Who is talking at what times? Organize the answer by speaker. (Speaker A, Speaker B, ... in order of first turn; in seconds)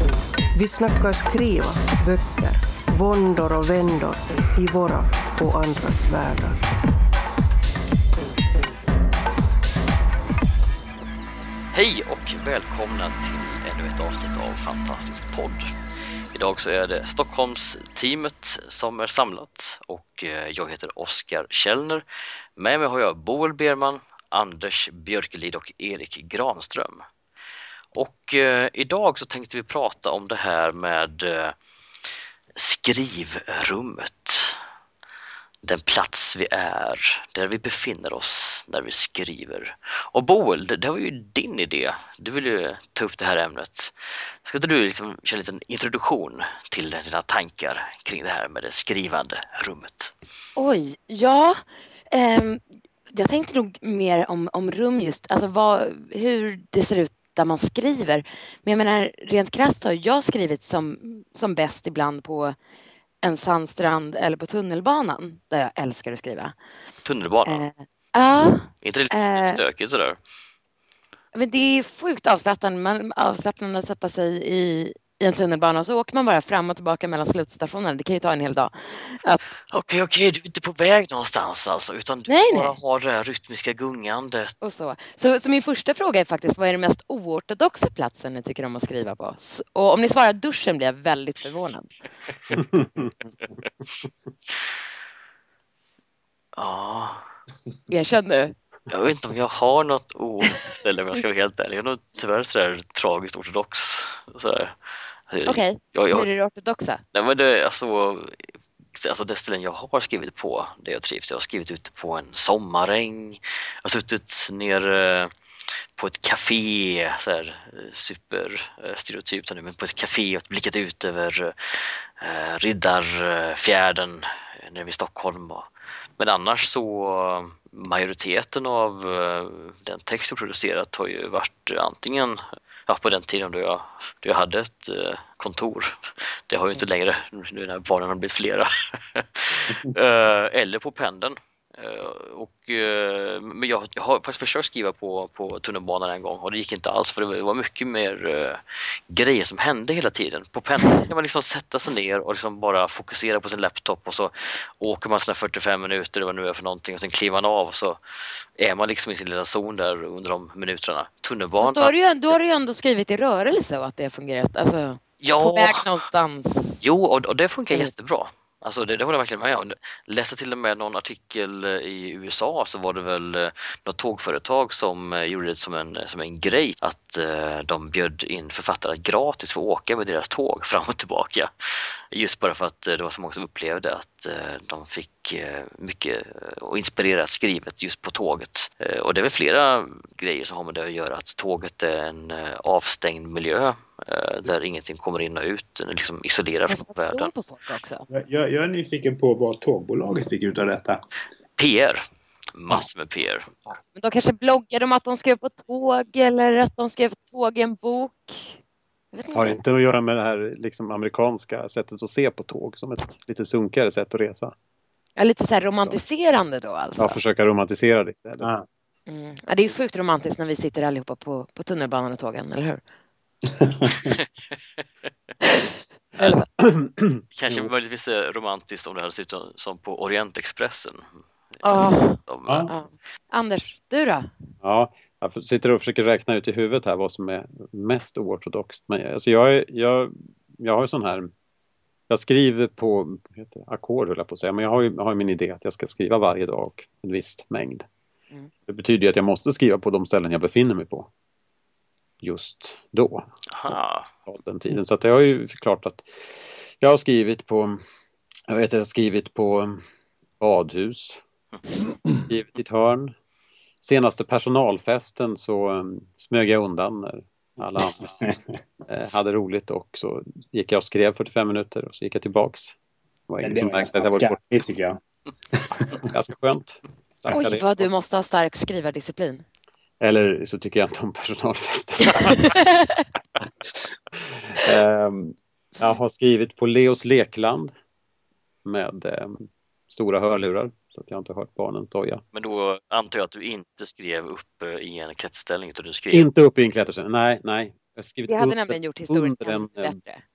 Speaker A: 0.5-6.6
Speaker B: 11.7-15.7, 16.3-22.0, 22.6-27.0, 27.9-31.6, 32.5-34.6, 35.6-50.1, 67.0-67.7, 68.8-70.2, 79.7-84.5, 96.6-97.2, 98.9-104.8, 105.3-106.3, 107.1-115.3, 116.0-158.0, 158.6-161.9, 165.2-165.9, 166.8-197.3, 201.6-202.1, 202.6-203.5, 227.3-231.0, 231.6-232.7, 253.5-254.1, 292.3-296.3
Speaker C: 50.6-52.6, 53.1-62.6, 63.2-66.6, 67.5-69.6, 71.3-79.4, 82.3-82.8, 84.6-91.9, 97.9-98.5, 105.5-107.0, 161.6-166.8, 196.7-198.1, 204.0-208.6, 209.1-209.6, 215.2-217.2, 219.1-222.8, 225.4-225.7, 231.6-234.3, 277.3-279.4, 282.2-283.0, 298.3-300.2
Speaker D: 92.5-93.1, 209.3-214.6, 217.0-218.5, 226.2-227.7, 234.6-241.3, 242.1-247.9, 248.7-251.1, 252.2-256.1, 256.8-257.8, 258.5-259.8, 260.4-261.2, 262.3-263.1, 263.8-268.2, 268.9-272.7, 273.3-274.4, 275.9-277.9, 280.0-282.5, 284.2-287.7, 288.6-292.2, 296.1-300.0
Speaker E: 198.1-201.0, 223.6-224.1, 273.4-275.0, 275.7-276.0